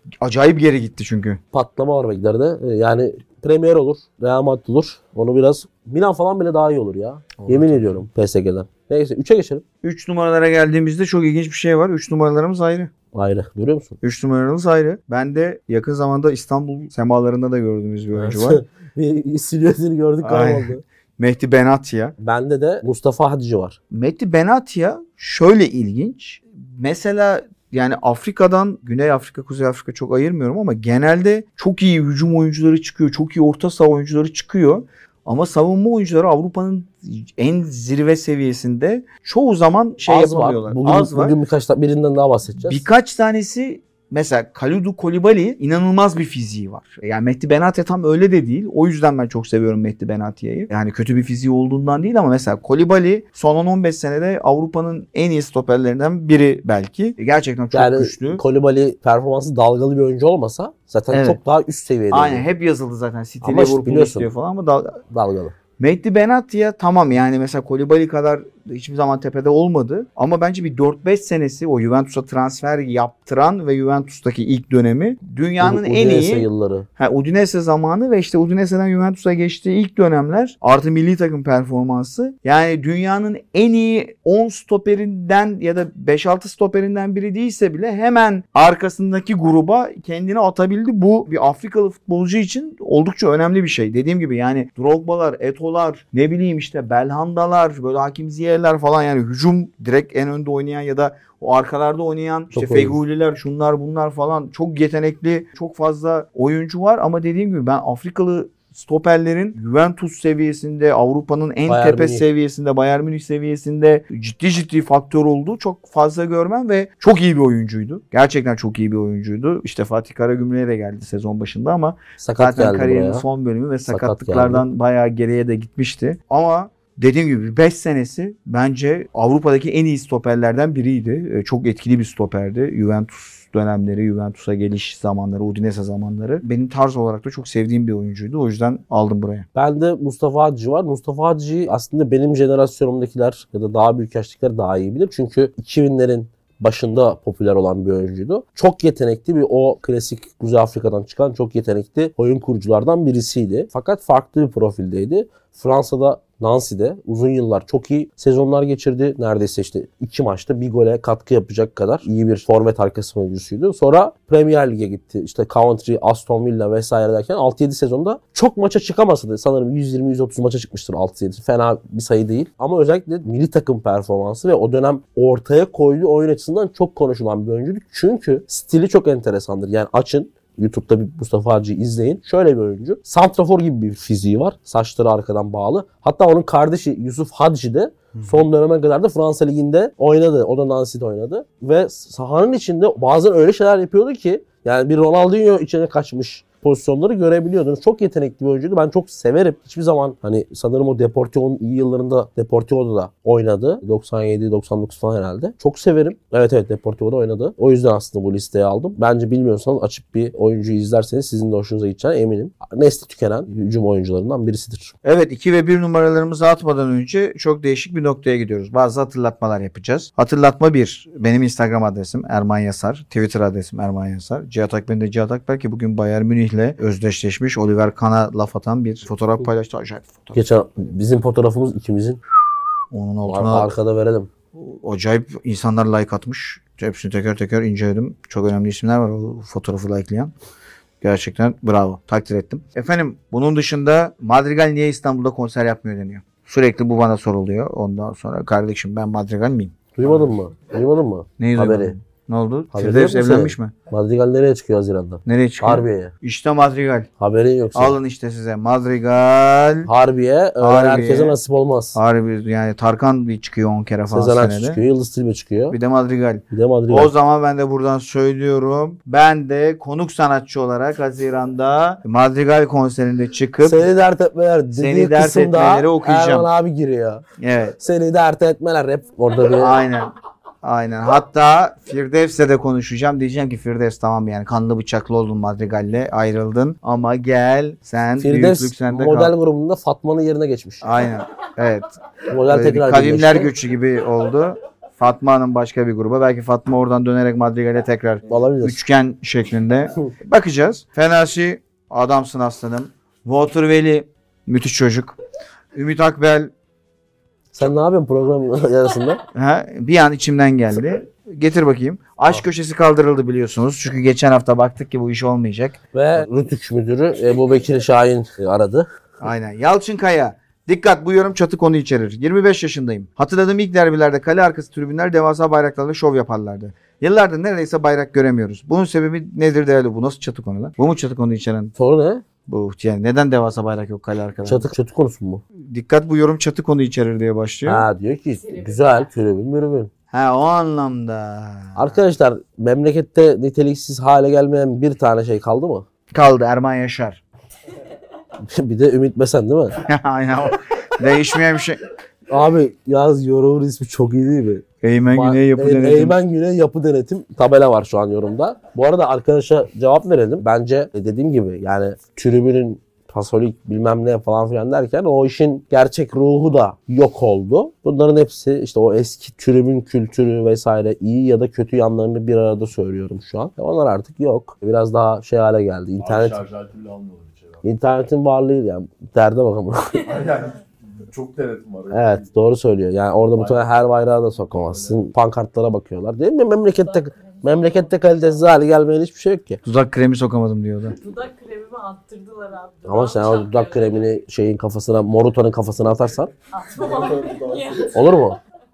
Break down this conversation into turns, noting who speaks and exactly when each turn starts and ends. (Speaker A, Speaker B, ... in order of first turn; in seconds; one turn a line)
Speaker A: 0.2-1.4
Speaker B: 1.5-9.6
Speaker A: 7.4-8.0
Speaker A: 9.8-12.9
Speaker B: 13.1-14.0
Speaker A: 14.0-18.6
Speaker B: 18.1-20.8
Speaker A: 20.2-22.1
Speaker B: 22.2-23.8
Speaker A: 23.9-41.4
Speaker B: 40.0-42.9
Speaker A: 42.6-58.4
Speaker B: 57.7-62.5
Speaker A: 61.1-61.4
Speaker A: 62.1-65.0
Speaker B: 63.4-64.3
Speaker B: 65.1-65.5
Speaker A: 65.8-139.5
Speaker B: 75.6-76.9
Speaker B: 102.5-103.0
Speaker B: 111.7-112.3
Speaker B: 122.2-123.3
Speaker B: 123.9-124.7
Speaker B: 139.6-214.9
Speaker A: 215.0-230.4
Speaker B: 230.3-232.2
Speaker A: 232.9-233.7
Speaker B: 233.3-234.3
Speaker A: 234.5-240.3
Speaker A: 241.0-250.3
Speaker B: 249.9-251.9
Speaker A: 251.4-253.7
Speaker B: 252.7-256.1
Speaker A: 255.3-257.1
Speaker B: 257.2-258.0
Speaker A: 257.7-259.9
Speaker B: 259.9-262.0
Speaker A: 260.6-261.4
Speaker A: 261.9-264.8
Speaker B: 264.1-265.8
Speaker A: 265.7-273.9
Speaker B: 266.5-267.1
Speaker B: 273.6-277.2
Speaker A: 274.8-276.5
Speaker A: 277.4-277.8
Speaker B: 277.8-279.8
Speaker A: 279.6-280.1
Speaker A: 280.6-289.3
Speaker B: 288.2-290.9
Speaker A: 290.8-305.2
Speaker B: 292.3-293.5
Speaker B: 298.3-298.8
Speaker A: 305.7-306.5
Speaker B: 307.5-309.2
Speaker A: 309.3-315.8
Speaker B: 315.9-318.9
Speaker A: 319.2-331.7
Speaker B: 331.8-332.2
Speaker A: 332.5-334.7
Speaker B: 334.4-335.4
Speaker A: 335.7-337.9
Speaker B: 337.7-339.9
Speaker C: 338.4-339.1
Speaker A: 340.1-342.0
Speaker B: 341.8-345.9
Speaker A: 346.1-347.2
Speaker B: 348.4-349.8
Speaker A: 349.8-351.8
Speaker B: 352.3-376.4
Speaker A: 354.8-356.2
Speaker D: 376.0-377.6
Speaker B: 377.6-380.2
Speaker D: 380.0-382.3
Speaker B: 381.9-389.6
Speaker D: 383.3-383.9
Speaker D: 384.4-385.1
Speaker C: 386.9-387.8
Speaker A: 389.6-391.0
Speaker C: 390.9-394.1
Speaker B: 392.9-396.3
Speaker C: 396.5-398.0
Speaker D: 396.8-397.9
Speaker B: 397.9-398.4